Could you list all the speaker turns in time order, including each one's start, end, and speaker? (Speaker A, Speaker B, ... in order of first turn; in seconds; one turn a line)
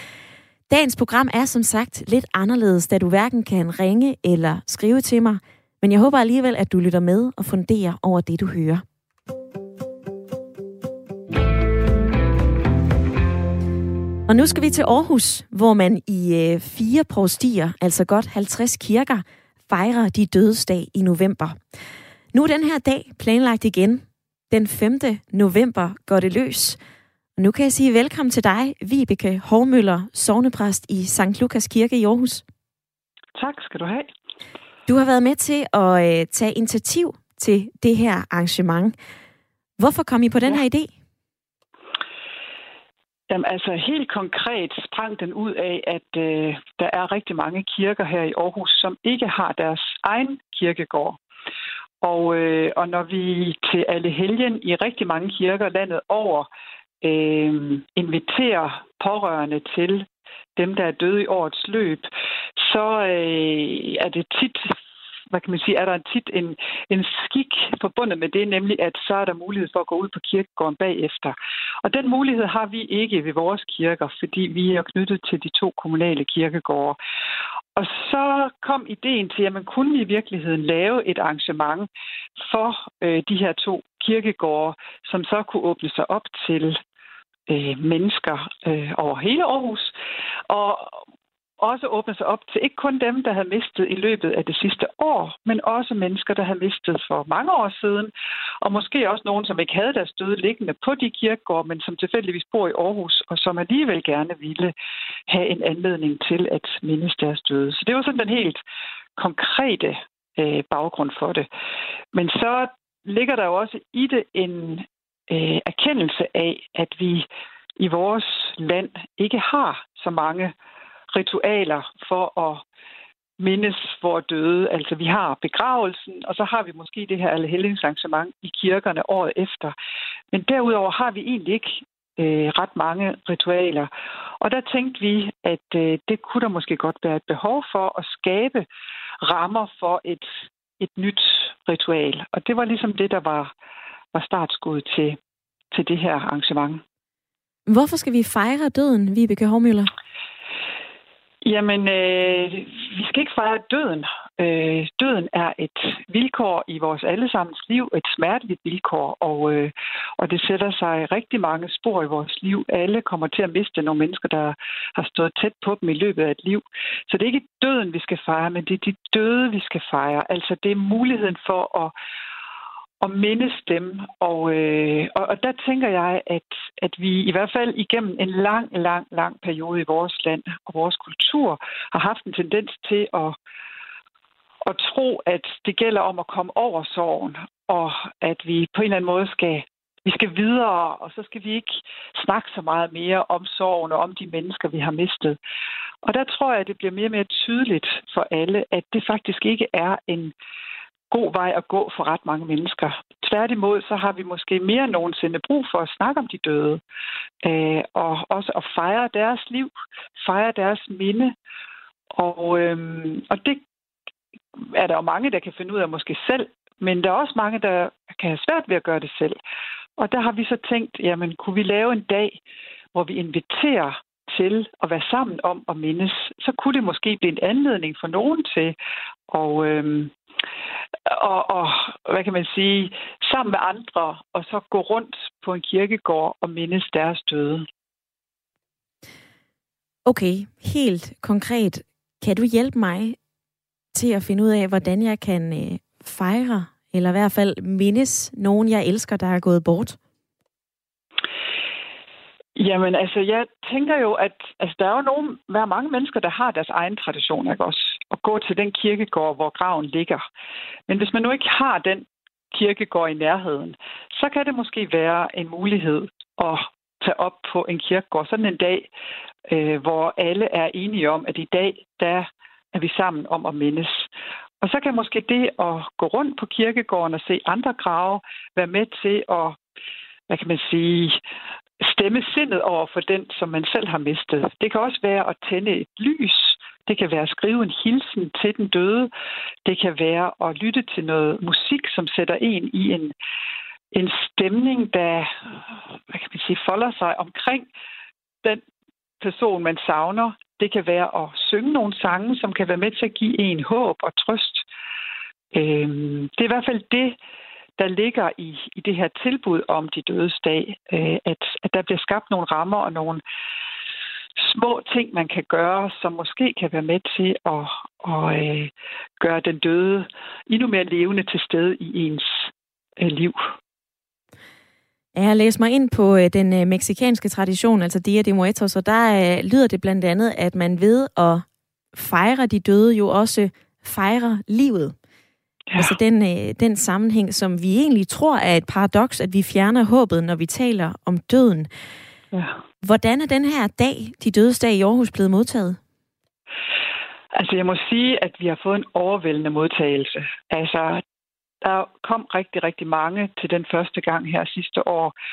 Speaker A: 0.7-8.8
Speaker A: 14.3-21.6
Speaker A: 22.3-26.8
Speaker A: 27.4-32.4
Speaker B: 33.4-34.1
Speaker A: 34.9-38.9
Speaker A: 39.8-40.9
Speaker B: 43.3-51.2
Speaker B: 52.0-56.5
Speaker B: 57.0-64.8
Speaker B: 65.3-77.0
Speaker B: 77.7-81.9
Speaker B: 82.4-86.8
Speaker B: 87.5-89.9
Speaker B: 90.5-91.0
Speaker B: 91.6-104.7
Speaker B: 105.3-108.6
Speaker B: 109.2-111.5
Speaker B: 112.1-117.2
Speaker B: 117.8-120.5
Speaker B: 121.1-122.6
Speaker B: 123.4-129.7
Speaker B: 130.3-133.9
Speaker B: 134.4-138.6
Speaker B: 139.2-143.5
Speaker B: 144.1-145.2
Speaker B: 145.7-146.8
Speaker A: 147.7-149.9
Speaker B: 151.4-171.9
Speaker B: 173.0-183.3
Speaker B: 184.6-195.4
Speaker B: 196.0-200.3
Speaker B: 201.1-206.8
Speaker B: 207.4-211.3
Speaker B: 212.1-213.6
Speaker B: 214.6-219.4
Speaker B: 220.0-222.4
Speaker B: 222.9-228.7
Speaker B: 229.3-230.1
Speaker B: 231.1-237.7
Speaker A: 240.1-243.2
Speaker A: 243.9-250.0
Speaker B: 252.6-260.2
Speaker B: 260.9-268.9
Speaker B: 269.5-274.1
Speaker B: 274.6-279.6
Speaker B: 280.3-281.2
Speaker B: 281.8-289.1
Speaker B: 289.6-293.1
Speaker B: 293.9-295.3
Speaker B: 296.1-297.7
Speaker B: 299.2-304.6
Speaker B: 305.5-307.1
Speaker B: 307.8-313.2
Speaker B: 314.4-323.5
Speaker A: 325.1-334.9
Speaker B: 335.7-336.0
Speaker A: 335.8-341.7
Speaker B: 342.3-342.6
Speaker A: 342.8-345.8
Speaker B: 347.4-351.0
Speaker B: 351.6-355.1